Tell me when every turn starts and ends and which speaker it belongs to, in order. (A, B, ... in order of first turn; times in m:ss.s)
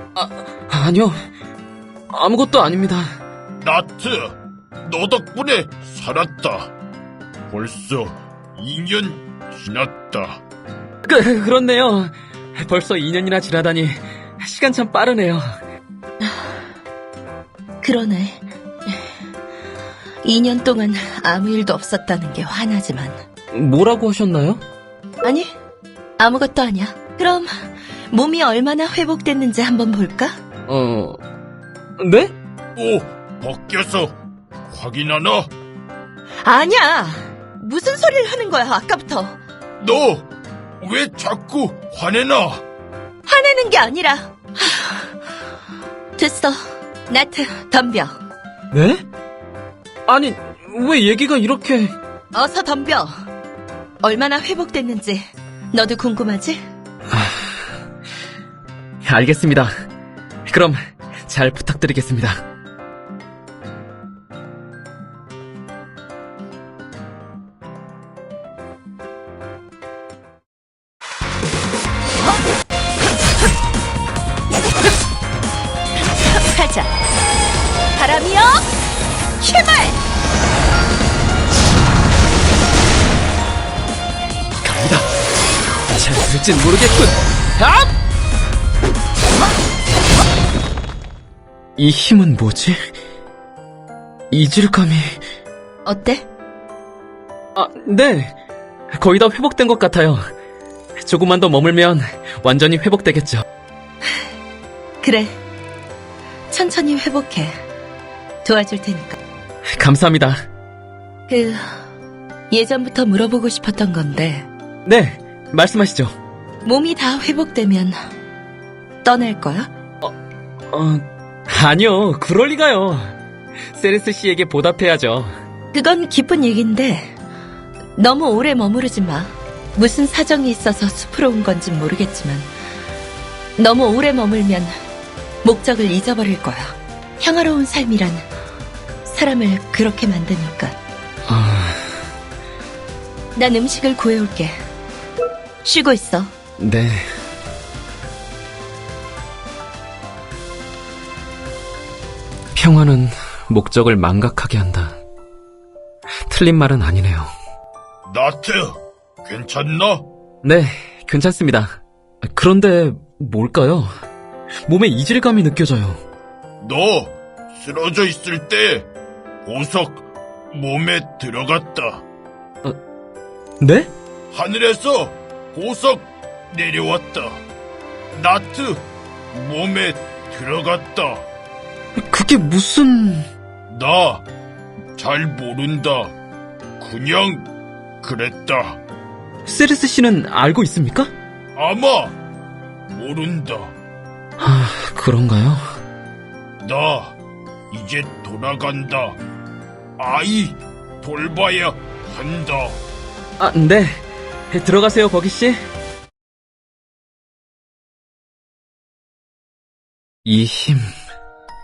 0:00.2-0:01.2 A
0:02.1-0:03.2 A
0:03.6-0:06.7 B
0:07.5-0:10.4 B
0:11.0-0:15.5 A
0:16.2-0:16.6 C
0:17.8-0:19.0 C
0:20.2-0:23.2 C
0:23.5-0:24.6 A
0:25.2-0:25.5 C
0:26.2-0:27.5 C
0:28.1-0:30.4 C
0:30.7-0:31.2 A
0:32.0-0:32.3 A
0:32.8-0:35.5 B
0:36.4-0:39.4 C
0:39.8-0:42.6 B
0:43.2-0:45.2 C
0:46.2-0:48.2 C
0:48.7-0:49.0 A
0:50.1-0:51.9 A
0:52.3-0:53.1 C
0:54.0-0:56.6 C
0:57.1-0:57.6 A
0:59.0-0:59.7 A
1:00.5-1:02.4 A
1:16.1-1:16.9 C
1:18.0-1:18.7 C
1:19.4-1:20.0 C
1:24.6-1:25.1 A
1:25.9-1:27.9 A
1:31.8-1:32.8 A
1:34.3-1:35.2 A
1:35.8-1:36.3 C
1:37.6-1:38.3 A
1:38.9-1:40.3 A
1:41.0-1:43.4 A
1:45.0-1:45.4 C
1:46.5-1:47.6 C
1:48.4-1:49.2 C
1:49.7-1:50.4 A
1:51.3-1:51.8 C
1:52.5-1:54.5 C
1:54.8-1:56.1 A
1:56.6-1:58.0 C
1:59.0-1:59.7 C
2:00.7-2:03.1 A
2:03.7-2:05.4 A
2:05.7-2:07.2 C
2:08.0-2:12.5 C
2:13.6-2:14.7 C
2:15.4-2:18.3 C
2:19.0-2:20.8 C
2:21.3-2:21.8 A
2:23.4-2:24.6 C
2:25.6-2:26.3 C
2:26.6-2:27.1 A
2:32.6-2:35.0 A
2:36.3-2:37.3 A
2:38.1-2:40.1 B
2:40.4-2:43.9 A
2:44.7-2:46.0 A
2:46.6-2:48.9 B
2:49.4-2:52.1 B
2:53.6-2:53.9 A
2:54.3-2:57.4 B
2:58.1-3:01.3 B
3:02.0-3:03.3 A
3:03.7-3:04.3 B
3:05.0-3:06.2 B
3:06.8-3:08.8 B
3:09.5-3:11.1 A
3:11.6-3:12.2 B
3:12.9-3:13.8 B
3:14.4-3:15.6 A
3:16.6-3:17.2 B
3:17.7-3:19.2 B
3:20.0-3:22.8 B
3:23.4-3:25.6 A
3:30.2-3:30.9 A